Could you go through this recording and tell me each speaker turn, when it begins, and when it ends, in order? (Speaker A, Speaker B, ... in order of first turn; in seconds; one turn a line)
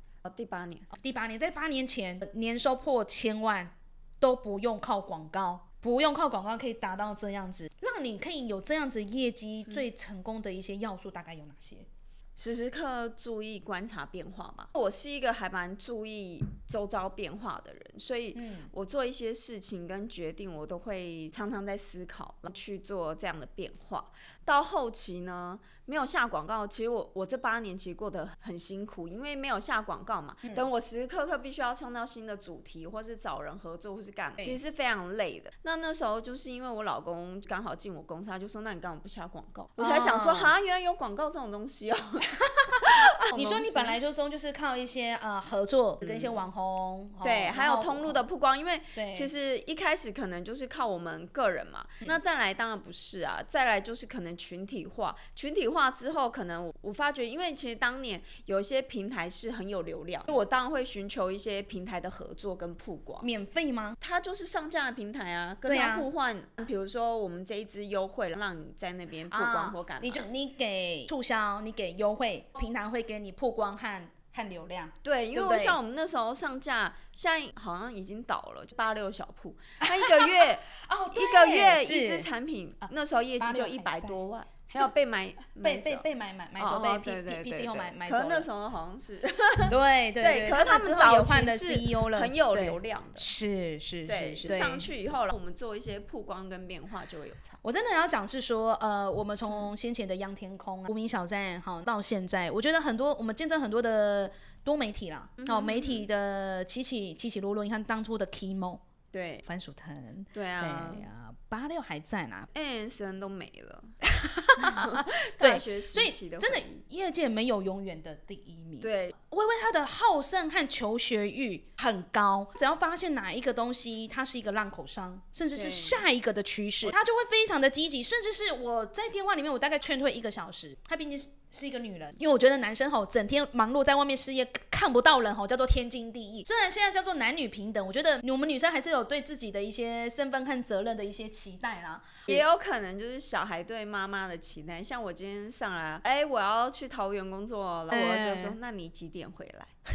Speaker A: 0.2-0.9
Speaker B: 0.9-11.9
Speaker A: 12.4-44.0
Speaker B: 18.4-18.7
Speaker B: 39.8-40.5
Speaker B: 42.4-48.2
Speaker A: 46.0-46.4
Speaker A: 47.2-63.3
Speaker B: 49.0-49.3
Speaker B: 63.2-64.0
Speaker A: 64.0-70.3
Speaker B: 65.7-66.1
Speaker B: 69.3-75.8
Speaker A: 75.0-86.1
Speaker B: 79.8-82.3
Speaker B: 82.8-84.9
Speaker B: 85.6-88.5
Speaker A: 86.6-93.3
Speaker B: 89.7-94.9
Speaker A: 94.1-97.6
Speaker B: 97.6-108.8
Speaker A: 105.4-106.0
Speaker A: 109.1-109.4
Speaker B: 109.5-112.5
Speaker A: 110.3-111.1
Speaker A: 112.5-113.9
Speaker B: 114.0-142.4
Speaker A: 114.6-116.8
Speaker A: 118.8-119.1
Speaker A: 125.5-126.0
Speaker A: 142.3-149.7
Speaker B: 147.9-148.6